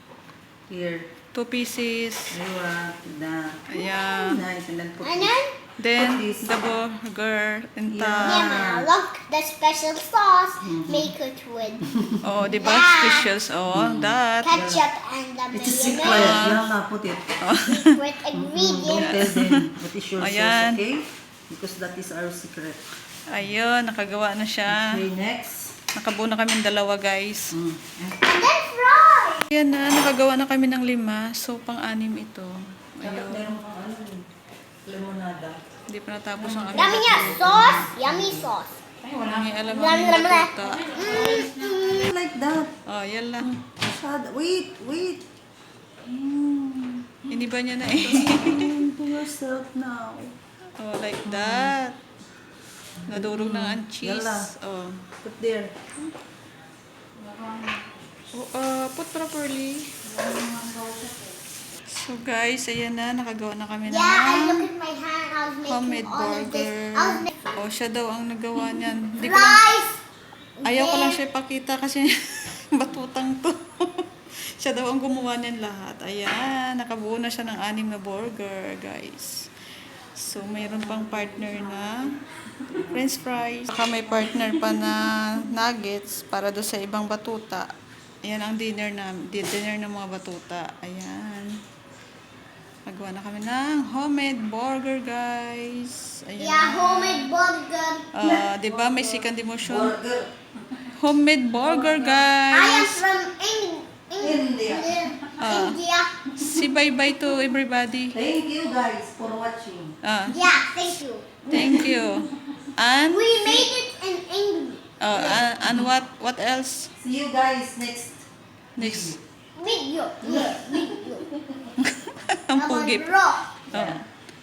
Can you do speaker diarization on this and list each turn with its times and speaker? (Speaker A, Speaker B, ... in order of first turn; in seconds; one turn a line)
Speaker A: 0.7-1.1
Speaker B: 1.3-2.4
Speaker A: 2.3-5.4
Speaker B: 3.7-4.4
Speaker C: 5.0-5.5
Speaker B: 5.8-8.8
Speaker A: 5.9-6.6
Speaker A: 7.9-8.9
Speaker C: 8.2-11.8
Speaker A: 10.6-11.1
Speaker B: 12.2-14.5
Speaker C: 12.4-13.3
Speaker A: 13.7-14.9
Speaker C: 14.4-16.5
Speaker A: 15.5-17.4
Speaker B: 16.0-16.7
Speaker B: 17.4-18.0
Speaker C: 17.6-19.2
Speaker A: 18.3-22.8
Speaker B: 18.9-20.8
Speaker B: 23.3-25.0
Speaker A: 24.7-25.7
Speaker B: 25.9-27.6
Speaker A: 27.5-28.2
Speaker C: 28.2-29.4
Speaker B: 29.5-33.6
Speaker A: 33.0-34.3
Speaker A: 34.9-35.6
Speaker B: 35.9-37.9
Speaker A: 36.4-38.5
Speaker C: 36.7-38.7
Speaker D: 39.0-42.0
Speaker B: 39.3-41.0
Speaker C: 39.7-42.1
Speaker A: 42.0-42.8
Speaker B: 42.9-43.5
Speaker A: 43.4-45.3
Speaker A: 46.0-50.4
Speaker B: 47.3-48.8
Speaker B: 50.8-52.0
Speaker A: 51.3-51.7
Speaker A: 53.0-54.5
Speaker B: 53.1-55.1
Speaker A: 55.2-55.9
Speaker D: 57.2-57.9
Speaker B: 58.3-59.9
Speaker D: 60.0-61.4
Speaker B: 61.9-64.7
Speaker C: 63.9-67.5
Speaker B: 65.7-69.6
Speaker C: 69.2-70.0
Speaker C: 70.6-71.2
Speaker B: 70.7-79.5
Speaker B: 80.2-82.1
Speaker D: 80.6-81.8
Speaker B: 82.7-87.7
Speaker B: 88.2-91.6
Speaker B: 92.9-97.3
Speaker C: 96.4-98.1
Speaker B: 98.1-100.0
Speaker A: 98.2-100.3
Speaker B: 100.9-103.0
Speaker A: 101.6-102.3
Speaker C: 102.5-106.2
Speaker A: 104.2-105.4
Speaker B: 105.4-105.8
Speaker B: 106.3-108.2
Speaker A: 108.1-110.0
Speaker B: 110.0-110.4
Speaker C: 110.3-111.4
Speaker A: 111.4-112.3
Speaker B: 111.5-113.7
Speaker C: 113.1-115.0
Speaker B: 115.0-116.9
Speaker A: 115.2-115.4
Speaker A: 117.0-119.2
Speaker B: 118.8-119.2
Speaker C: 119.6-121.3
Speaker A: 120.2-121.1
Speaker B: 121.8-123.1
Speaker C: 122.5-123.5
Speaker B: 123.7-124.0
Speaker A: 123.7-124.0